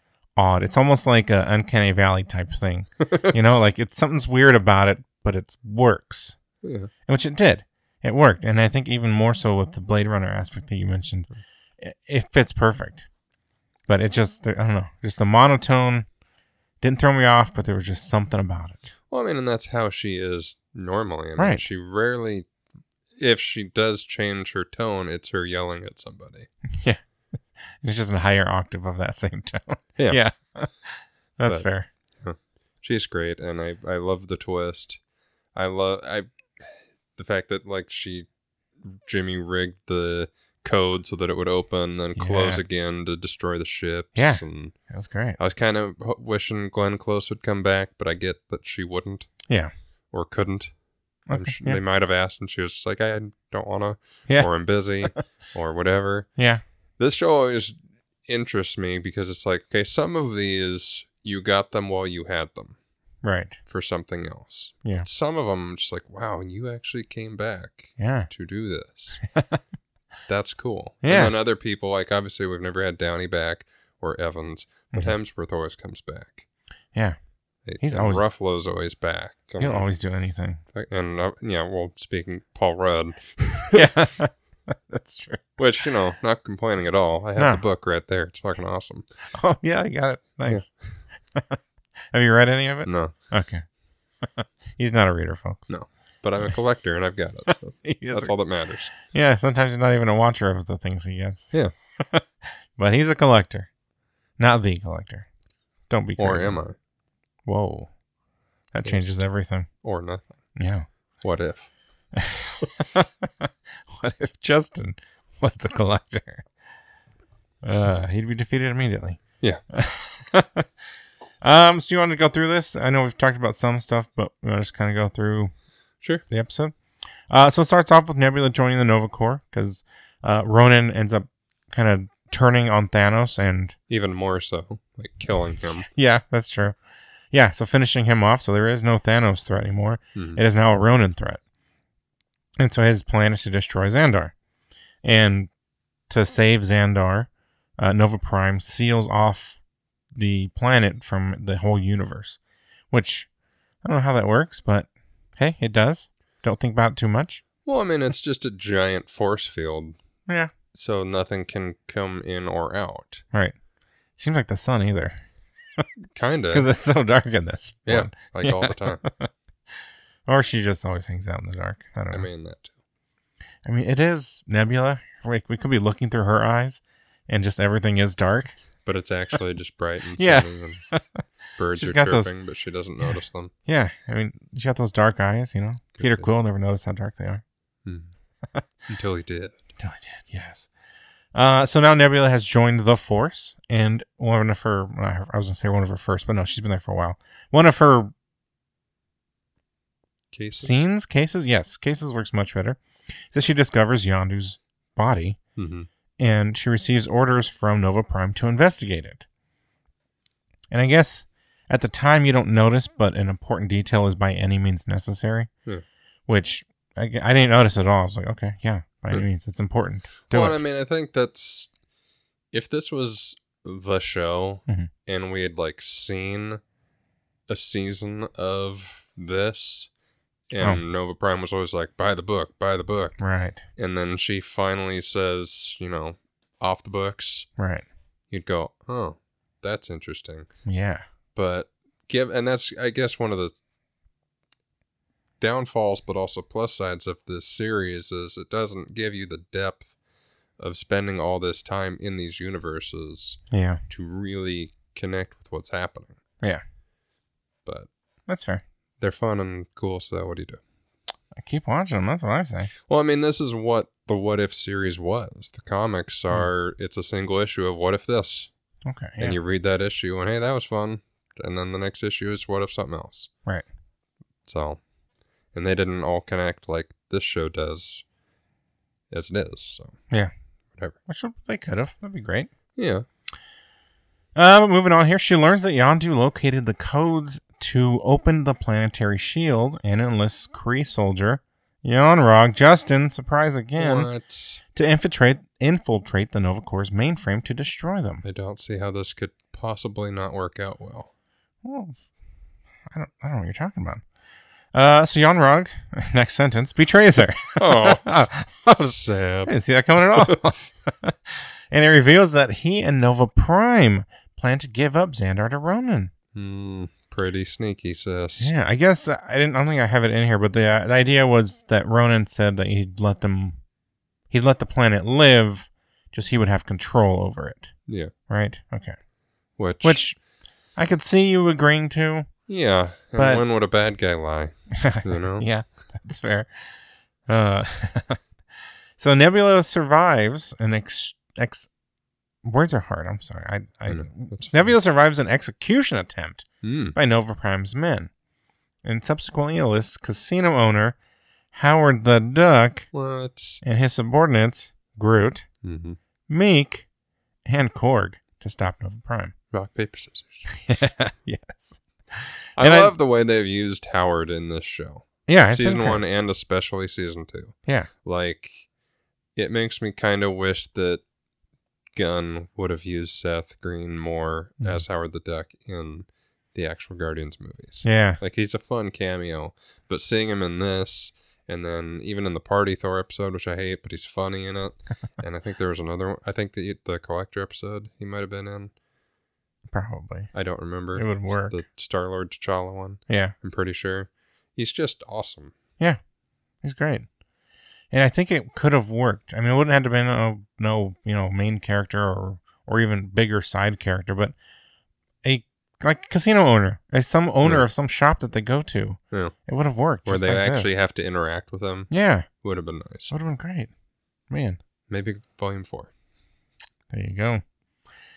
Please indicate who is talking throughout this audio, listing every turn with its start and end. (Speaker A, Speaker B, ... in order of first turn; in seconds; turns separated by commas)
Speaker A: 0.4-6.4, Speaker B: 3.0-3.4, Speaker B: 6.6-6.9, Speaker A: 7.1-13.1, Speaker A: 13.9-16.1, Speaker A: 16.8-18.9, Speaker B: 19.1-22.5, Speaker A: 21.4-21.6, Speaker B: 23.2-26.5, Speaker A: 26.7-27.0, Speaker A: 27.8-31.9, Speaker B: 32.2-35.0, Speaker B: 35.5-38.3, Speaker B: 38.8-44.8, Speaker A: 42.2-42.6, Speaker A: 44.1-45.4, Speaker B: 45.4-49.3, Speaker B: 50.1-50.7, Speaker A: 51.3-51.8, Speaker B: 51.3-56.3, Speaker A: 56.4-56.6, Speaker B: 57.0-57.8, Speaker B: 58.3-62.8, Speaker A: 63.2-63.6, Speaker B: 63.7-69.2, Speaker A: 68.0-68.3, Speaker A: 69.2-69.6, Speaker B: 70.3-76.5, Speaker A: 71.0-71.3, Speaker B: 77.7-79.9, Speaker A: 77.8-78.3, Speaker A: 79.6-80.6, Speaker B: 80.7-83.9, Speaker A: 83.7-85.4, Speaker B: 85.6-89.0, Speaker A: 87.4-87.6, Speaker A: 89.3-90.7, Speaker A: 91.3-91.6, Speaker A: 92.1-93.6, Speaker B: 92.9-93.1, Speaker A: 94.2-95.7, Speaker B: 95.7-98.9, Speaker A: 97.8-98.3, Speaker A: 98.9-103.7, Speaker A: 104.4-105.3, Speaker A: 105.9-106.6, Speaker B: 106.2-106.8, Speaker A: 107.5-107.9, Speaker A: 108.7-109.7, Speaker B: 108.8-109.2, Speaker B: 109.8-110.3, Speaker A: 110.5-110.9, Speaker B: 111.2-111.7, Speaker A: 112.1-116.5, Speaker A: 117.6-120.7, Speaker A: 121.4-125.5, Speaker A: 126.3-126.8, Speaker A: 127.3-133.8, Speaker B: 133.9-135.9, Speaker A: 135.8-136.8, Speaker A: 137.3-141.4, Speaker B: 140.2-140.4, Speaker A: 142.6-144.3, Speaker A: 145.0-145.5, Speaker A: 146.1-149.6, Speaker A: 150.1-152.4, Speaker A: 152.9-153.3, Speaker A: 153.8-157.4, Speaker B: 157.7-160.0, Speaker B: 160.7-163.2, Speaker A: 164.2-165.2, Speaker B: 166.1-166.7, Speaker A: 166.5-169.3, Speaker B: 167.9-169.0, Speaker A: 170.3-172.3, Speaker B: 172.1-172.7, Speaker A: 173.7-178.6, Speaker B: 178.8-180.8, Speaker A: 180.2-181.2, Speaker B: 181.6-183.5, Speaker A: 181.8-182.3, Speaker A: 183.7-187.4, Speaker B: 186.0-186.3, Speaker B: 187.8-188.1, Speaker B: 188.9-189.6, Speaker A: 189.8-190.7, Speaker A: 191.3-198.1, Speaker B: 200.3-200.8, Speaker A: 200.6-202.8, Speaker A: 203.3-205.4, Speaker B: 205.6-205.9, Speaker A: 206.2-209.3, Speaker A: 210.7-215.5, Speaker A: 216.3-220.6, Speaker B: 220.3-221.7, Speaker B: 222.5-226.6, Speaker B: 227.5-229.9, Speaker B: 230.5-233.2, Speaker A: 233.2-233.6, Speaker B: 233.8-237.5, Speaker A: 237.6-237.8, Speaker B: 238.3-240.5, Speaker A: 240.7-241.0, Speaker B: 241.3-243.6, Speaker B: 245.4-250.0, Speaker B: 250.6-256.2, Speaker A: 253.5-253.8, Speaker A: 258.3-258.6, Speaker B: 259.0-260.6, Speaker A: 261.4-262.7, Speaker B: 262.9-268.5, Speaker A: 268.9-269.4, Speaker B: 269.2-273.3, Speaker B: 274.5-274.8, Speaker B: 275.5-278.0, Speaker B: 279.1-280.0, Speaker A: 281.1-282.5, Speaker B: 282.8-283.1, Speaker A: 284.4-294.1, Speaker B: 293.8-294.6, Speaker A: 294.8-298.2, Speaker B: 298.2-301.1, Speaker A: 301.6-302.0, Speaker A: 302.9-304.0, Speaker A: 304.7-308.9, Speaker B: 307.6-308.2, Speaker B: 308.7-309.5, Speaker A: 309.5-316.1, Speaker B: 310.1-310.5, Speaker B: 316.3-318.5, Speaker A: 318.4-323.6, Speaker A: 324.3-327.7, Speaker B: 327.9-328.1, Speaker A: 328.3-329.0, Speaker B: 329.6-330.0, Speaker A: 329.8-330.2, Speaker A: 330.8-332.3, Speaker B: 332.5-335.5, Speaker A: 333.2-333.4, Speaker A: 334.7-336.5, Speaker A: 337.3-338.2, Speaker A: 339.0-341.7, Speaker A: 342.4-348.1, Speaker B: 343.9-344.8, Speaker B: 346.6-347.0, Speaker A: 348.8-351.0, Speaker A: 351.5-352.9, Speaker B: 352.9-353.6, Speaker A: 353.6-355.5, Speaker B: 355.6-356.0, Speaker A: 356.3-356.9, Speaker A: 357.4-359.3, Speaker B: 359.5-360.5, Speaker A: 360.5-362.9, Speaker B: 362.6-368.7, Speaker A: 365.3-366.0, Speaker B: 369.4-371.0, Speaker B: 371.9-388.7, Speaker A: 377.8-378.2, Speaker A: 389.7-390.3, Speaker B: 390.3-395.5, Speaker A: 390.9-391.6, Speaker A: 393.1-393.3, Speaker A: 396.6-397.1, Speaker A: 397.9-404.4, Speaker A: 405.2-410.8, Speaker B: 410.1-413.1, Speaker A: 411.9-412.3, Speaker A: 413.1-413.7, Speaker A: 414.3-414.6, Speaker B: 414.9-415.9, Speaker A: 416.9-417.4